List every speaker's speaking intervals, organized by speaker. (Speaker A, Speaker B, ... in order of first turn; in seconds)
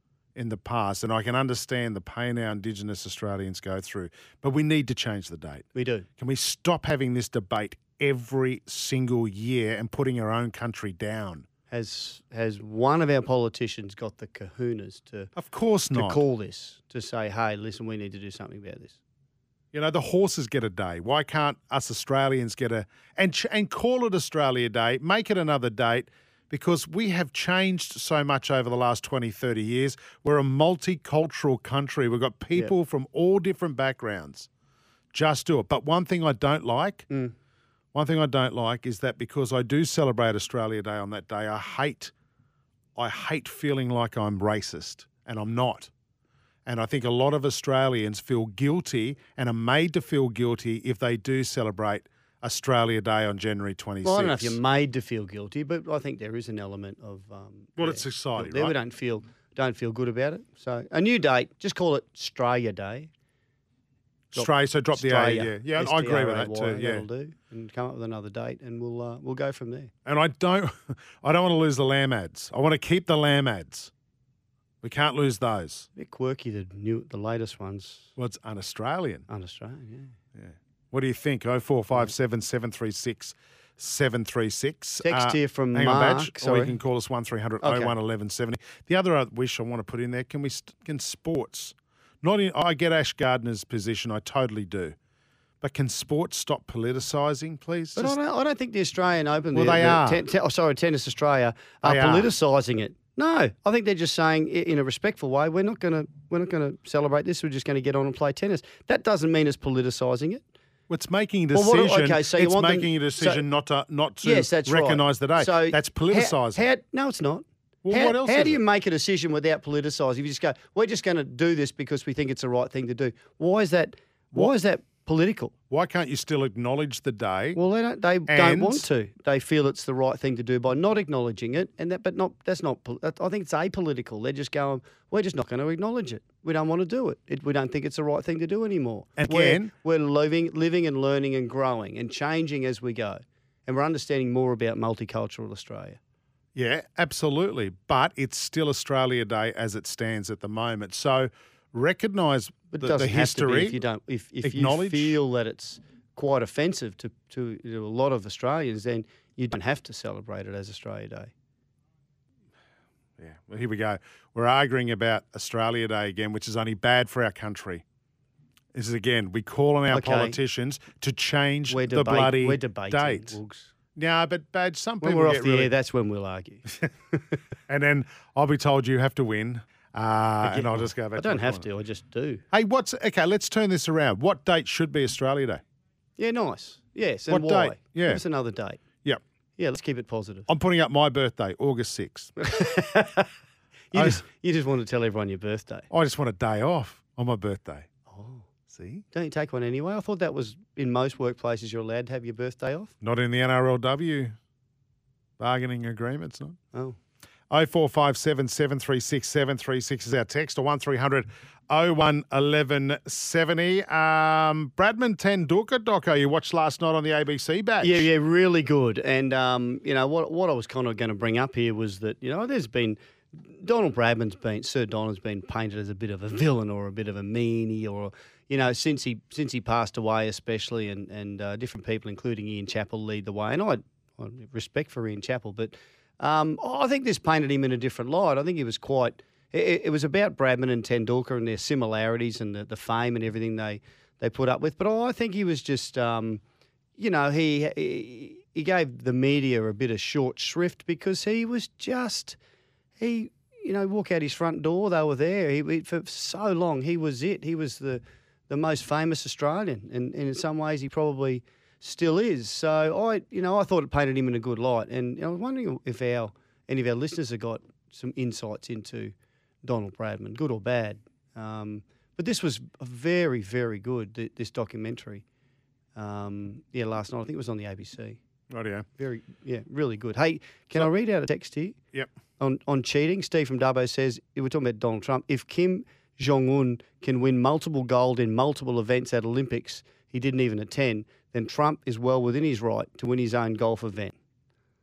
Speaker A: 0.3-5.6, 6.2-11.4, 15.3-16.2, 19.7-34.5, 35.1-37.1, 37.9-42.1, 43.0-45.9, 46.6-54.6, 57.8-58.8, 64.3-67.0, 70.0-73.9, 74.8-75.9, 78.2-79.2, 80.3-94.9, 95.6-98.2, 99.5-100.2, 101.8-102.3, 110.9-116.6, 117.8-118.6, 125.7-127.6, 128.3-128.8, 139.2-139.7, 146.5-153.8, 154.4-155.2, 163.2-167.8, 168.7-173.4, 173.9-175.7, 177.7-181.6, 182.5-185.6, 187.3-188.2, 190.5-192.3, 193.9-194.2, 195.9-197.9, 198.7-199.0, 203.0-204.3, 205.4-206.6, 207.5-218.1, 278.5-278.9
Speaker B: 5.7-6.1, 11.7-15.3, 15.9-19.0, 54.0-63.1, 64.3-69.9, 75.9-78.1, 79.3-80.1, 85.0-86.8, 87.6-87.9, 97.9-110.4, 111.5-113.4, 114.2-125.5, 127.5-146.0, 152.7-161.3, 169.9-170.4, 171.7-173.7, 175.0-177.4, 180.4-182.4, 186.2-188.8, 189.6-190.5, 192.4-193.3, 193.9-195.9, 198.1-198.4, 199.1-202.9, 217.8-246.4, 247.0-252.4, 253.0-275.2, 275.9-278.2, 279.0-281.8, 282.4-294.1